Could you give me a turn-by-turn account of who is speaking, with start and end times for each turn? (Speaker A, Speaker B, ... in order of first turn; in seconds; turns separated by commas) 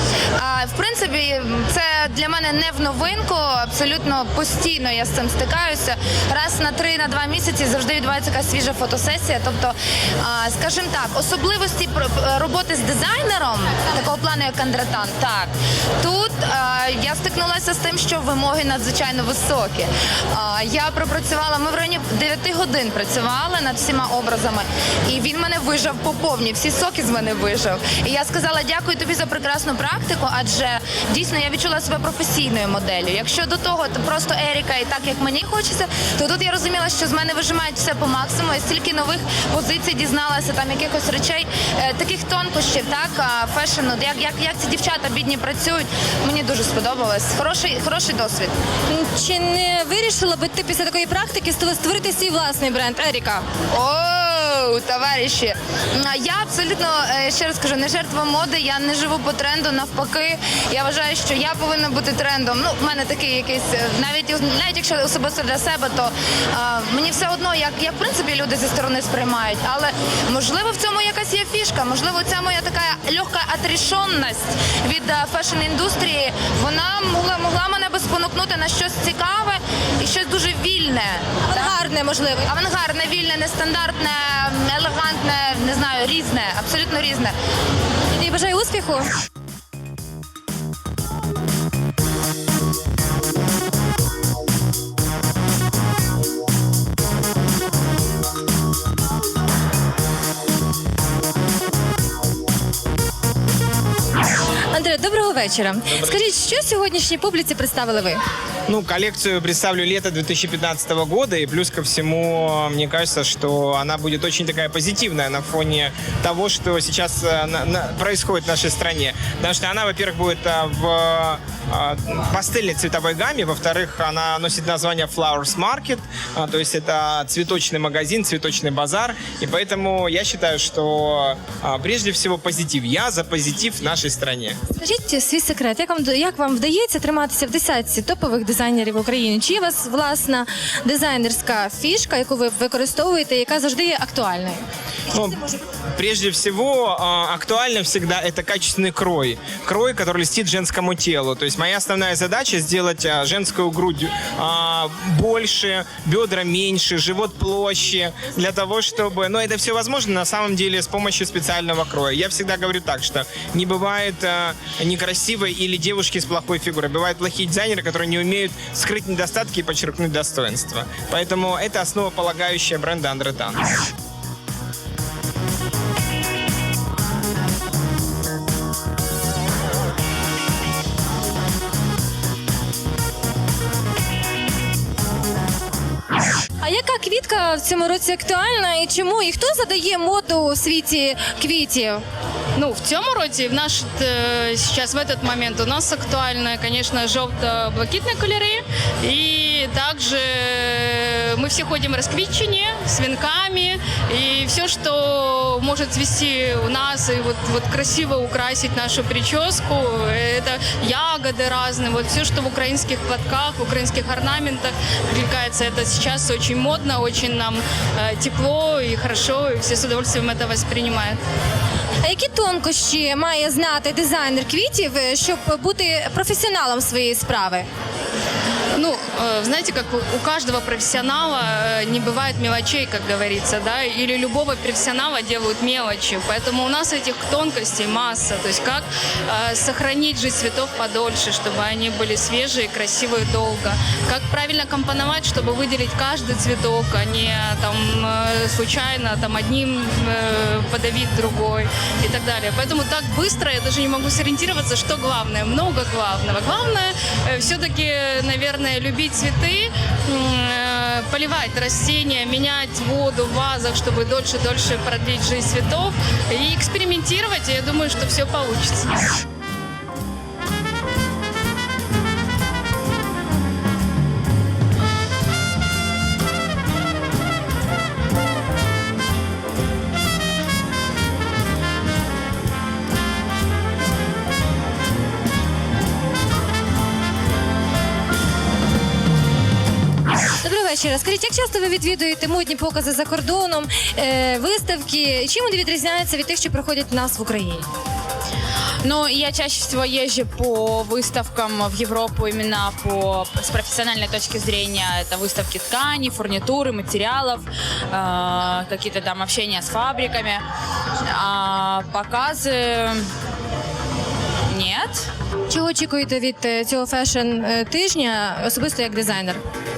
Speaker A: 0.4-48.5, Speaker B: 48.9-53.4, Speaker A: 53.7-81.8, Speaker B: 81.4-82.5, Speaker A: 82.5-87.3, Speaker B: 88.1-89.1, Speaker B: 104.7-108.2, Speaker C: 108.7-134.6, Speaker B: 134.8-144.6, Speaker C: 145.1-145.4, Speaker C: 145.9-173.6, Speaker B: 186.6-192.0, Speaker D: 192.6-221.2, Speaker B: 222.0-227.7, Speaker D: 228.8-269.0, Speaker B: 290.4-297.7, Speaker E: 298.8-310.4, Speaker E: 311.1-313.1, Speaker E: 314.5-315.1, Speaker B: 315.5-319.4